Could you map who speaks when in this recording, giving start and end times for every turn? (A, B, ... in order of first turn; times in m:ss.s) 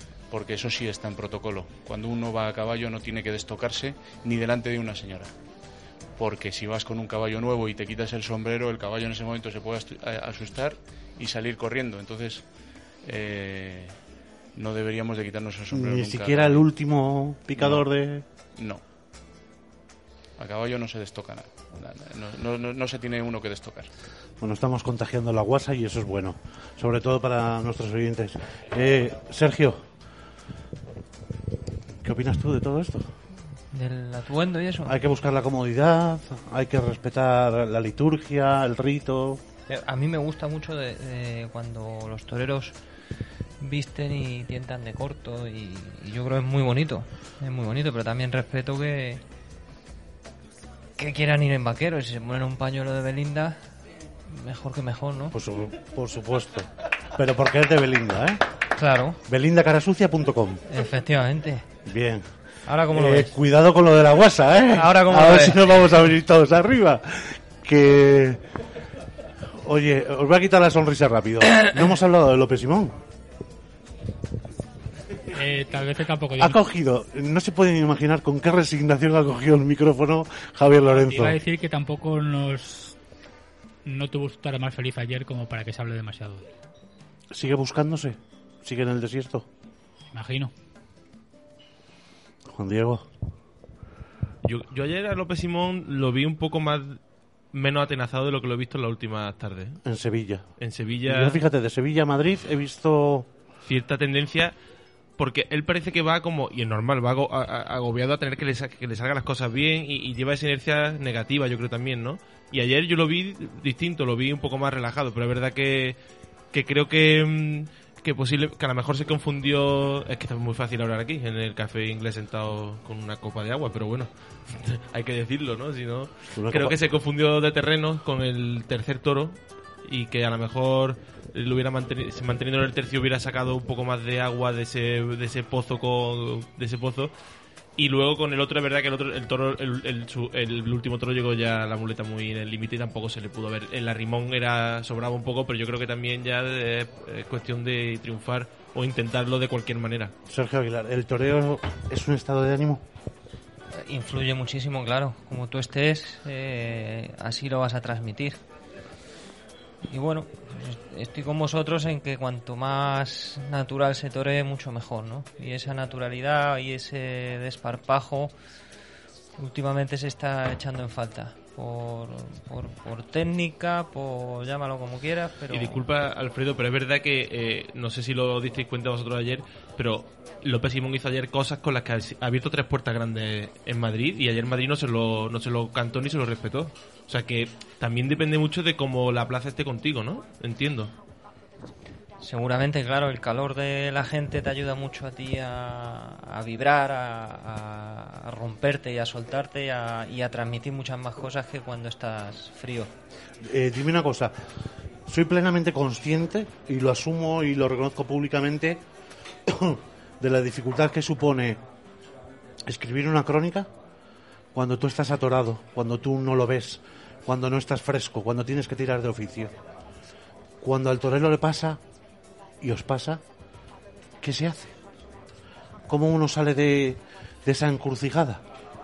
0:00.3-0:05.3 A
0:06.2-0:12.4 A
0:13.0-0:14.0 A
0:14.5-0:16.6 A
0:15.7-0:18.2 B
0:17.6-0:17.8 A
0:18.6-0:18.8 A
0:20.4-0:23.9 A
0:24.4-0:29.8 B
0:32.0-0:33.1 B
0:33.7-0:35.0 C
0:34.8-0:39.4 B
0:39.7-0:42.8 C
0:43.6-0:49.2 C
0:51.0-0:53.6 C
0:54.3-0:55.4 C
0:55.3-0:58.4 B
0:58.8-0:59.2 C
0:59.2-1:00.6 B
1:00.7-1:01.6 C
1:01.8-1:02.2 B
1:02.6-1:03.4 C
1:02.9-1:08.4 B
1:04.7-1:05.6 C
1:09.5-1:13.0 B
1:15.3-1:16.6 D
1:16.4-1:21.4 B
1:20.9-1:23.0 D
1:23.8-1:26.5 D
1:27.3-1:29.5 B
1:30.1-1:30.5 D
1:32.4-1:33.0 B
1:34.4-1:37.0 E
1:37.5-1:39.8 E
1:39.8-1:40.5 B
1:40.6-1:41.4 E
1:41.0-1:43.3 B
1:43.6-1:44.5 E
1:45.2-1:56.0 E
1:56.5-2:17.1 E
2:06.3-2:06.8 B
2:17.8-2:30.1 E
2:30.3-2:32.8 B
2:33.7-2:38.4 C
2:39.8-2:48.3 C
2:49.4-2:55.8 C
2:55.5-3:10.9 E
3:12.2-3:22.9 C
3:23.4-3:24.3 B
3:25.0-3:28.8 B
3:29.4-3:31.6 B
3:32.6-3:33.7 B
3:34.5-3:39.5 B
3:40.6-3:41.8 B
3:42.6-3:43.2 B
3:44.2-3:44.7 B
3:45.9-3:48.4 B